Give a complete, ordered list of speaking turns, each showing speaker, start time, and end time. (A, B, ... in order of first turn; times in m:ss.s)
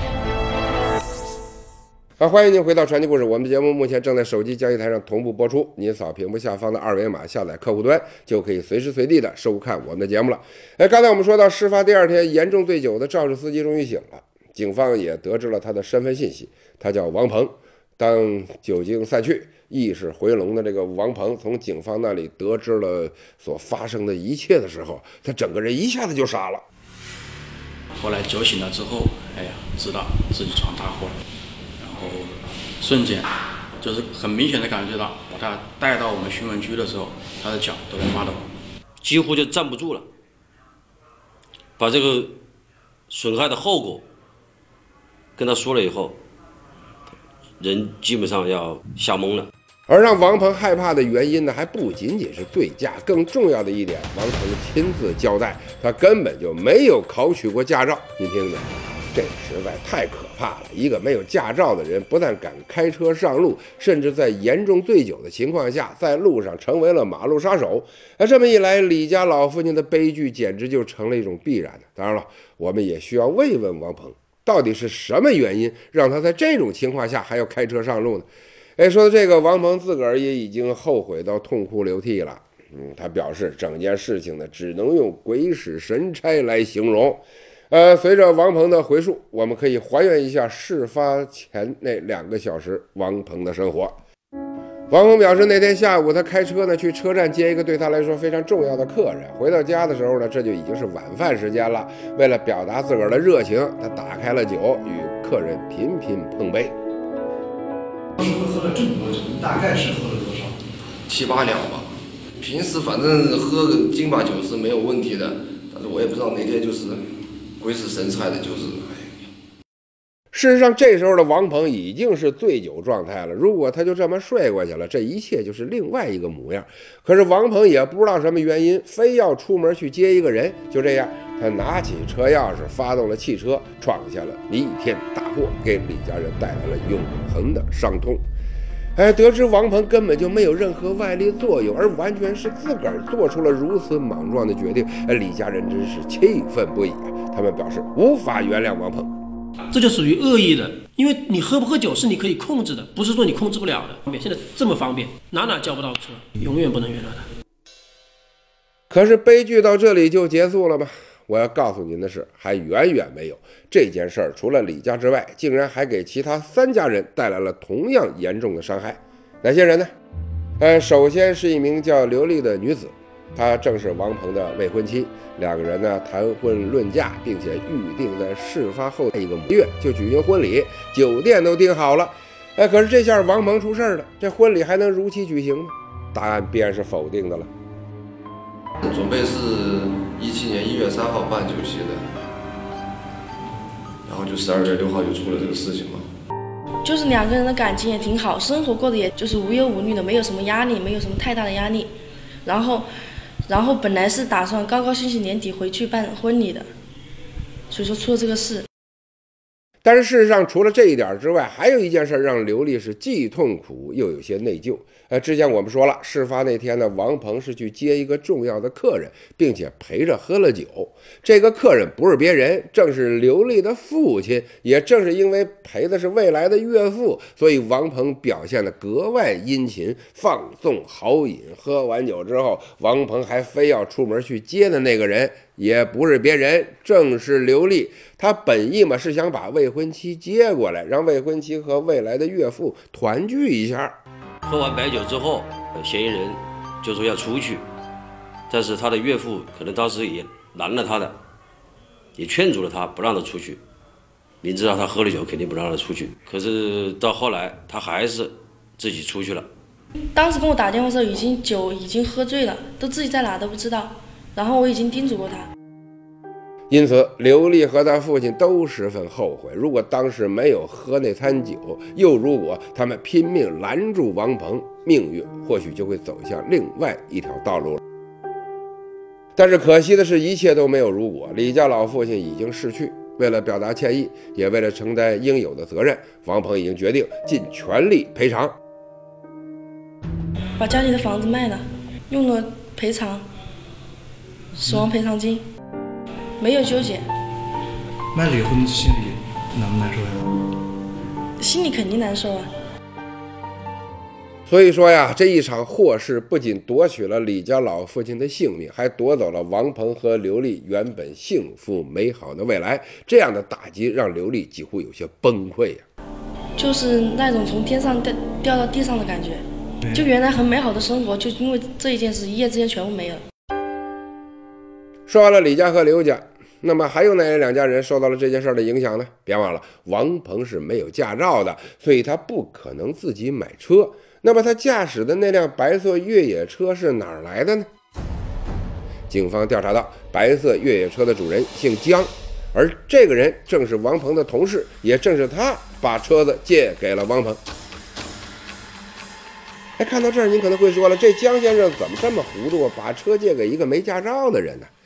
0:02.2-0:26.6 A
0:28.0-0:31.2 B
0:31.8-0:38.4 B
0:39.0-0:40.0 C
0:41.8-0:42.4 C
0:43.1-0:44.0 C
0:45.4-0:46.2 C
0:47.6-0:49.5 C
0:49.9-1:18.2 A
1:18.8-1:33.9 A
1:34.9-1:46.7 A
1:48.2-1:50.6 D
1:51.0-1:57.0 E
1:57.6-1:59.2 E
2:00.3-2:18.2 A
2:19.0-2:29.1 A
2:29.7-2:37.3 F
2:38.9-2:49.9 A
2:50.6-3:07.5 A
3:08.8-3:12.0 E
3:14.0-3:16.1 E
3:16.8-3:21.9 G
3:22.4-3:22.9 G
3:23.4-3:26.7 G
3:27.7-3:28.6 G
3:29.8-4:03.9 A
4:04.4-4:07.6 C
4:08.5-4:11.2 C
4:12.2-4:13.6 C
4:14.4-4:19.4 C
4:20.1-4:25.5 G
4:26.7-4:37.8 A
4:39.4-4:48.5 A
4:50.6-4:53.3 G
4:54.6-4:55.5 G
4:56.4-4:57.1 G
4:58.1-5:00.3 D
5:01.4-5:02.5 G
5:04.5-5:15.8 A
5:16.6-5:23.2 G
5:25.1-5:37.7 A
5:39.1-5:47.4 A
5:49.8-5:54.7 A